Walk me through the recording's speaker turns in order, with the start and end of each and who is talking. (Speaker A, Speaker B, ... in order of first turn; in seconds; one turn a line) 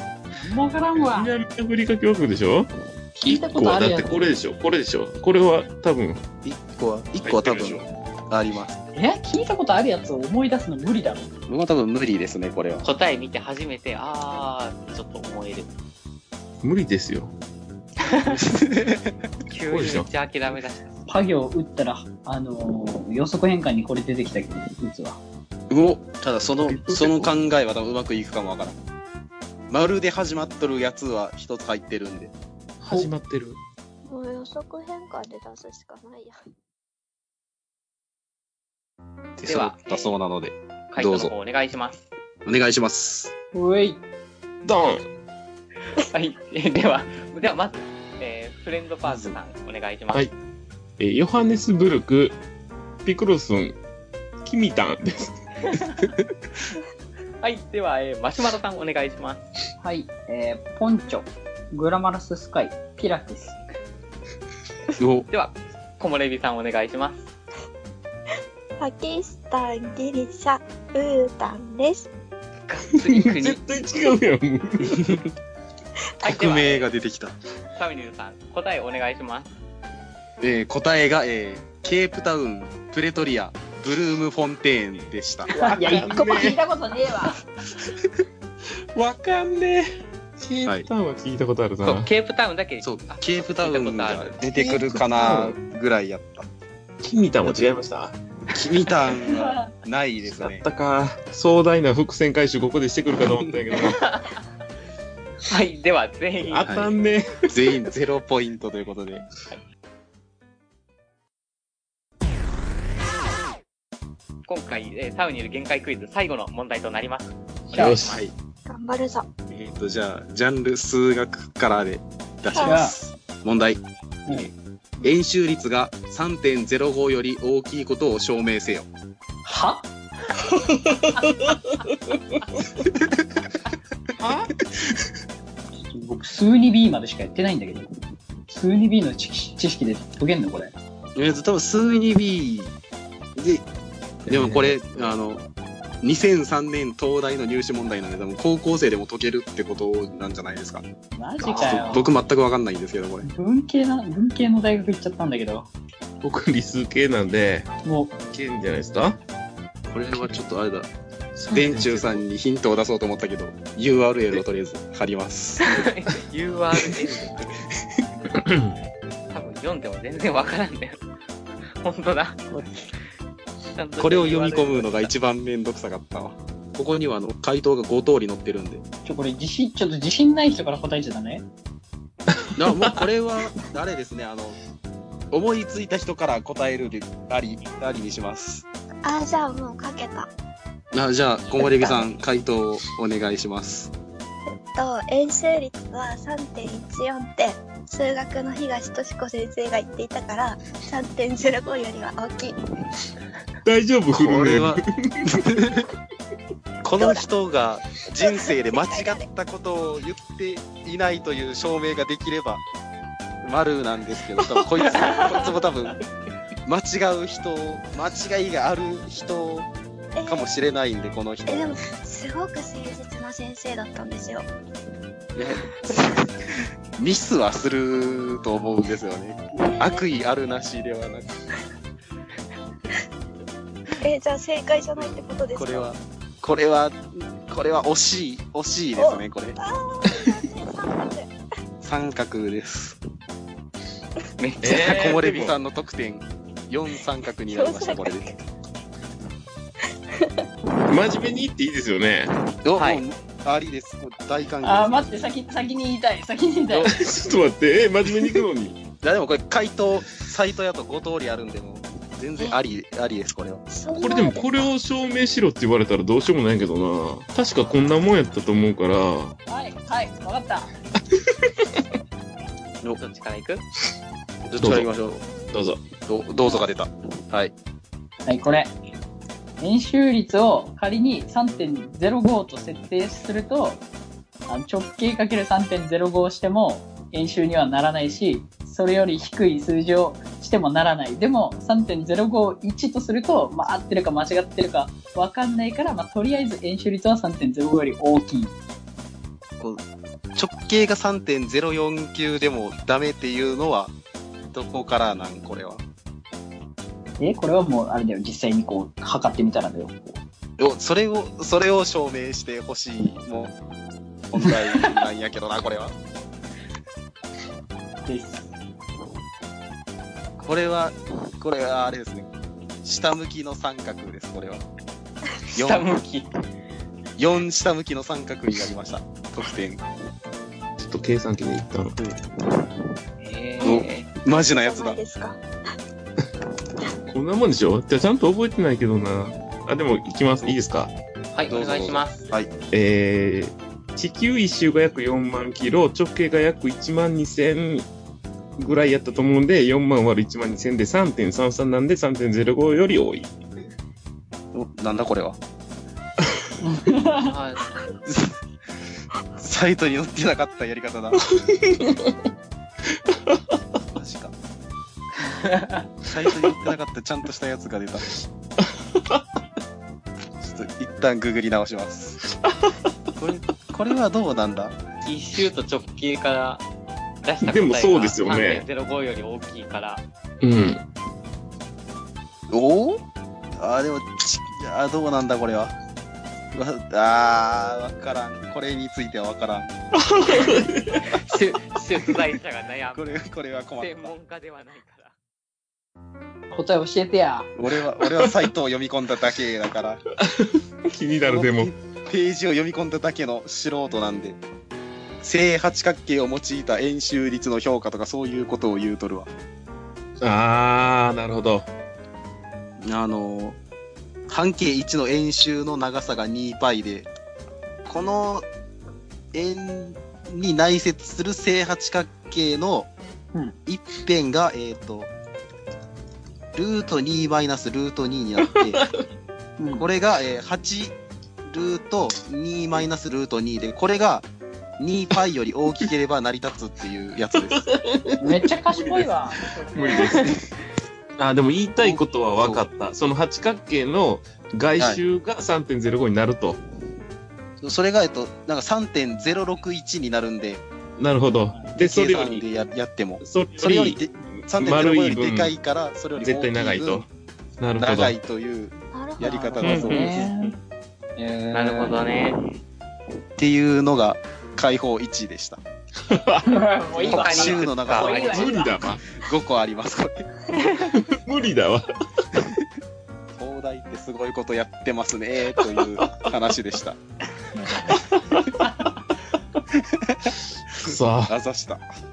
Speaker A: 0.3-1.3
Speaker B: 0.9-2.7
Speaker A: 3.2-4.3
Speaker B: 3.2-6.2
Speaker C: 6.4-8.8
Speaker B: 7.2-7.9
Speaker A: 8.9-11.3
Speaker C: 11.5-12.9
Speaker D: 12.8-15.7
Speaker B: 16.6-17.3
Speaker D: 18.0-18.4
Speaker C: 18.3-19.2
Speaker D: 19.5-20.9
Speaker B: 19.7-20.1
Speaker A: 21.1-25.2
Speaker C: 25.7-28.8
Speaker B: 26.6-27.3
Speaker C: 29.7-32.3
Speaker B: 32.8-33.6
Speaker A: 32.9-33.1
Speaker E: 34.1-36.4
Speaker C: 39.4-41.3
Speaker D: 39.5-40.2
Speaker D: 40.9-42.1
Speaker C: 42.5-43.3
Speaker A: 43.5-44.0
Speaker B: 44.6-45.0
Speaker D: 46.0-50.3
Speaker C: 49.0-49.4
Speaker B: 51.0-52.4
Speaker B: 53.0-53.8
Speaker B: 54.4-55.4
Speaker D: 57.4-59.5
Speaker A: 59.8-63.6
Speaker C: 65.0-65.3
Speaker D: 65.3-67.3
Speaker E: 68.8-72.1
Speaker D: 72.7-73.6
Speaker B: 72.9-75.2
Speaker C: 74.9-75.2
Speaker D: 76.2-76.9
Speaker C: 76.2-77.3
Speaker D: 77.8-79.5
Speaker C: 80.4-85.5
Speaker A: 85.5-87.4
Speaker B: 85.8-86.6
Speaker B: 89.0-92.1
Speaker D: 91.8-94.4
Speaker C: 92.8-96.5
Speaker B: 94.5-95.6
Speaker B: 97.0-98.2
Speaker C: 97.5-97.7
Speaker C: 98.5-100.6
Speaker A: 99.4-99.7
Speaker B: 100.3-104.0
Speaker D: 103.7-104.4
Speaker D: 105.5-106.7
Speaker B: 106.5-107.5
Speaker C: 106.6-106.9
Speaker C: 107.5-109.3
Speaker D: 114.5-118.2
Speaker A: 117.7-118.0
Speaker B: 117.7-118.2
Speaker C: 118.0-118.3
Speaker E: 118.7-119.3
Speaker C: 119.5-124.5
Speaker E: 122.5-122.8
Speaker A: 122.6-123.0
Speaker C: 125.0-128.9
Speaker A: 129.4-129.9
Speaker B: 130.6-132.2
Speaker C: 132.9-133.3
Speaker B: 134.2-134.6
Speaker A: 135.9-137.9
Speaker A: 138.5-140.8
Speaker C: 141.2-142.7
Speaker C: 143.4-143.7
Speaker C: 144.3-145.4
Speaker B: 144.3-144.8
Speaker C: 146.0-150.8
Speaker A: 151.2-152.1
Speaker C: 151.5-153.3
Speaker D: 151.6-151.9
Speaker A: 153.2-155.7
Speaker B: 156.2-157.7
Speaker A: 157.8-158.2
Speaker B: 158.2-159.2
Speaker C: 159.9-160.9
Speaker B: 161.4-162.2
Speaker C: 161.5-165.8
Speaker D: 165.6-167.6
Speaker B: 168.3-168.8
Speaker D: 169.3-171.0
Speaker D: 171.8-172.5
Speaker D: 173.8-175.1
Speaker C: 174.0-178.8
Speaker A: 179.1-181.4
Speaker B: 182.3-183.0
Speaker C: 182.6-184.6
Speaker C: 185.3-188.7
Speaker E: 189.0-190.3
Speaker C: 190.9-193.9
Speaker E: 194.7-202.6
Speaker B: 203.7-205.3
Speaker C: 204.1-205.9
Speaker C: 206.8-212.6
Speaker E: 207.0-207.3
Speaker E: 208.2-209.2
Speaker C: 213.4-216.0
Speaker B: 214.4-214.8
Speaker D: 214.8-215.4
Speaker C: 216.7-219.7
Speaker E: 220.2-220.4
Speaker C: 220.3-221.8
Speaker E: 221.5-224.5
Speaker C: 225.4-226.3
Speaker C: 227.0-231.3
Speaker E: 229.6-230.0
Speaker E: 234.0-235.9
Speaker C: 235.0-239.6
Speaker E: 239.0-241.3
Speaker C: 241.8-243.0
Speaker D: 244.4-245.3
Speaker B: 244.6-245.6
Speaker C: 244.7-248.3
Speaker E: 247.5-248.3
Speaker B: 250.9-252.3
Speaker C: 252.6-255.2
Speaker D: 252.8-253.0
Speaker A: 254.6-256.9
Speaker B: 256.8-258.9
Speaker C: 259.0-263.6
Speaker E: 263.7-264.7
Speaker B: 263.9-269.4
Speaker A: 269.5-270.7
Speaker B: 271.1-271.7
Speaker D: 273.0-273.6
Speaker C: 274.5-275.2
Speaker B: 274.6-274.9
Speaker B: 275.5-275.9
Speaker C: 276.1-277.5
Speaker A: 278.3-278.7
Speaker A: 279.6-283.8
Speaker A: 284.5-298.6
Speaker C: 300.4-303.9
Speaker C: 304.5-305.8
Speaker A: 307.2-310.0
Speaker C: 310.6-313.5
Speaker C: 314.3-315.9
Speaker A: 314.4-315.0
Speaker A: 318.1-318.5
Speaker C: 320.4-322.3
Speaker C: 322.8-324.6
Speaker D: 325.5-326.3
Speaker C: 325.6-325.9
Speaker C: 327.2-329.8
Speaker B: 330.8-332.0
Speaker D: 333.2-334.1
Speaker C: 333.6-335.0
Speaker E: 333.6-335.4
Speaker B: 337.1-340.9
Speaker D: 341.3-342.3
Speaker C: 341.5-342.5
Speaker B: 342.7-347.9
Speaker B: 348.6-353.3
Speaker C: 354.5-355.4
Speaker A: 356.6-357.3
Speaker D: 357.2-357.8
Speaker C: 358.1-358.4
Speaker C: 359.4-361.2
Speaker B: 361.2-362.2
Speaker B: 363.0-363.6
Speaker C: 363.9-364.3
Speaker D: 365.4-365.8
Speaker C: 366.1-368.1
Speaker B: 368.6-369.2
Speaker C: 370.4-372.2
Speaker B: 372.2-372.9
Speaker C: 373.2-374.8
Speaker D: 375.0-376.6
Speaker D: 377.2-380.0
Speaker B: 377.4-378.6
Speaker B: 380.4-380.8
Speaker C: 382.5-383.0
Speaker C: 383.6-385.7
Speaker C: 386.5-389.8
Speaker B: 390.0-391.2
Speaker D: 391.1-393.1
Speaker C: 392.9-394.1
Speaker D: 393.8-395.1
Speaker A: 396.5-397.5
Speaker C: 397.6-400.0
Speaker B: 398.1-398.3
Speaker B: 400.2-401.7
Speaker C: 401.2-404.4
Speaker C: 405.2-409.3
Speaker B: 410.2-411.7
Speaker C: 412.8-413.6
Speaker C: 414.3-417.1
Speaker C: 417.9-418.5
Speaker C: 419.3-422.9
Speaker C: 423.7-425.1
Speaker C: 426.5-428.8
Speaker B: 428.5-429.0
Speaker A: 429.6-429.9
Speaker C: 429.8-430.9
Speaker C: 431.5-434.3
Speaker C: 434.8-437.7
Speaker B: 437.4-440.4
Speaker A: 438.2-440.3
Speaker B: 441.2-446.6
Speaker C: 441.8-442.6
Speaker C: 447.6-450.6
Speaker B: 451.0-452.4
Speaker C: 451.8-457.1
Speaker B: 453.2-455.5
Speaker B: 456.2-457.1
Speaker B: 457.6-458.1
Speaker C: 457.8-460.2
Speaker E: 458.9-459.6
Speaker A: 459.5-460.6
Speaker D: 459.6-460.5
Speaker A: 461.2-462.0
Speaker D: 461.5-462.4
Speaker C: 463.4-465.6
Speaker B: 466.1-466.7
Speaker A: 466.4-468.8
Speaker C: 466.9-470.3
Speaker D: 467.0-468.5
Speaker B: 468.1-469.0
Speaker B: 470.7-471.9
Speaker C: 473.4-477.0
Speaker B: 475.8-476.3
Speaker B: 477.9-478.7
Speaker C: 479.7-481.8
Speaker B: 480.8-481.4